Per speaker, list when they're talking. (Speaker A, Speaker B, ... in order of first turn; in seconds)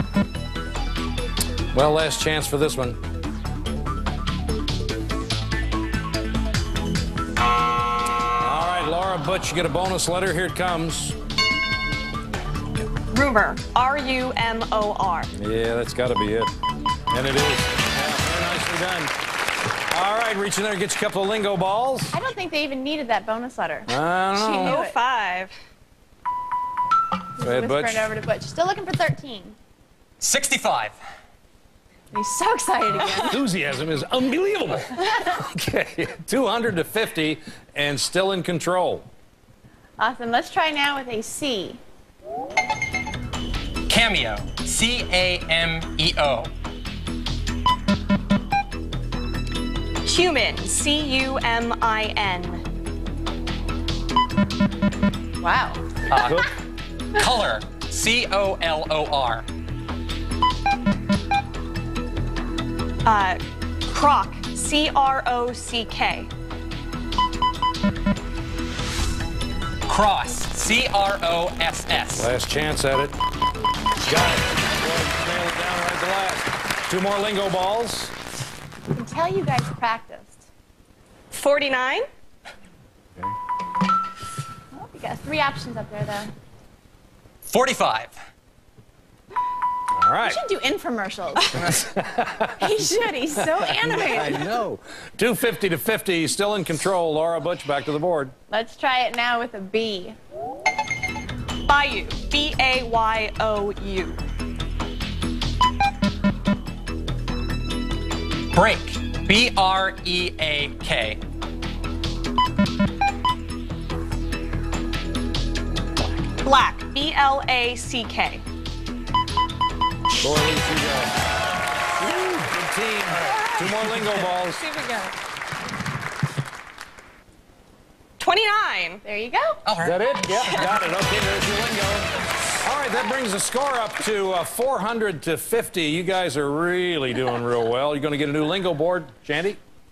Speaker A: 1.7-3.0, 8.4-11.2, 15.3-16.5, 17.1-19.1, 19.9-22.2, 23.9-24.8, 27.4-28.1, 33.2-39.1, 56.1-56.5, 72.2-73.2, 74.0-78.1, 89.9-90.4, 91.7-92.7, 93.4-98.3, 120.2-121.2, 122.0-124.6, 129.8-132.1, 132.6-139.6
Speaker B: 13.1-15.3, 24.4-25.5, 50.0-52.6, 63.0-66.3, 81.3-82.0, 101.7-104.2, 116.4-118.4, 123.2-125.1, 128.2-129.0
Speaker C: 22.1-25.0, 27.4-29.6, 32.1-33.4, 40.0-41.8, 55.4-55.8, 78.9-80.5, 84.7-86.3, 90.2-91.8, 92.6-94.5, 98.5-100.2, 129.0-129.6
Speaker D: 30.2-31.0, 43.9-46.5, 56.1-56.5, 57.1-59.5, 69.9-72.3, 87.5-88.1, 108.5-111.2, 129.6-130.7